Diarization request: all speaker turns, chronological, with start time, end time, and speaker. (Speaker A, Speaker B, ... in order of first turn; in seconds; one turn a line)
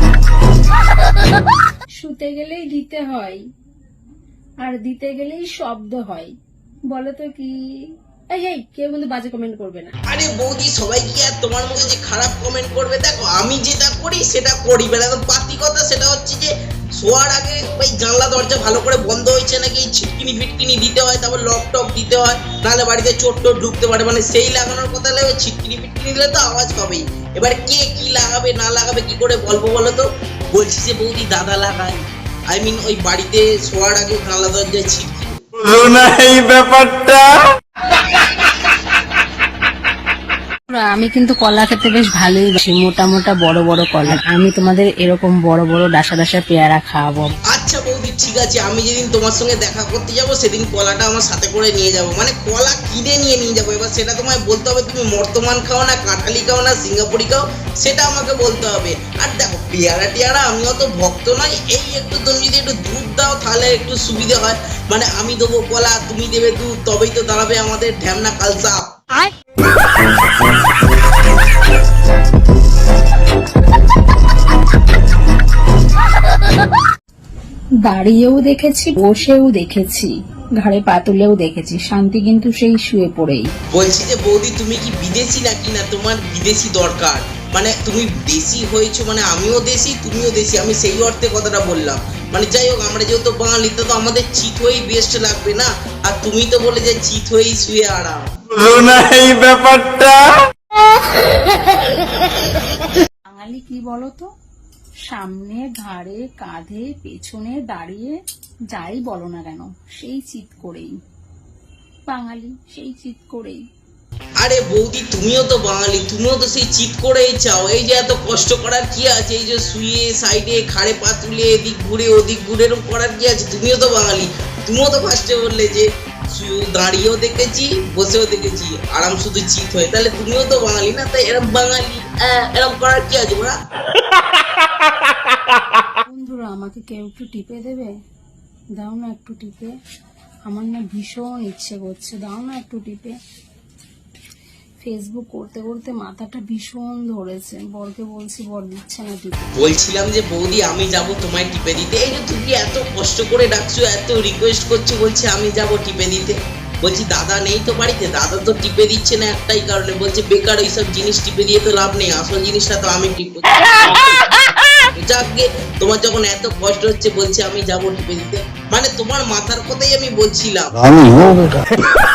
Speaker A: 2.0-3.4
Speaker A: 4.6-6.3
Speaker A: 6.9-7.5
Speaker A: 8.3-9.9
Speaker B: 10.1-32.0
Speaker B: 32.5-35.4
Speaker C: 35.6-37.4
Speaker A: 40.7-47.3
Speaker B: 47.5-68.8
Speaker A: 77.9-83.5
Speaker B: 83.7-98.2
Speaker C: 98.5-100.4
Speaker A: 103.3-104.3
Speaker A: 105.1-108.1
Speaker A: 108.7-110.9
Speaker A: 112.1-113.6
Speaker B: 114.4-133.6
Speaker A: 136.1-137.9
Speaker A: 138.8-139.7
Speaker A: 140.5-143.1
Speaker A: 144.8-149.5
Speaker B: 149.6-164.2
Speaker B: 165.0-170.7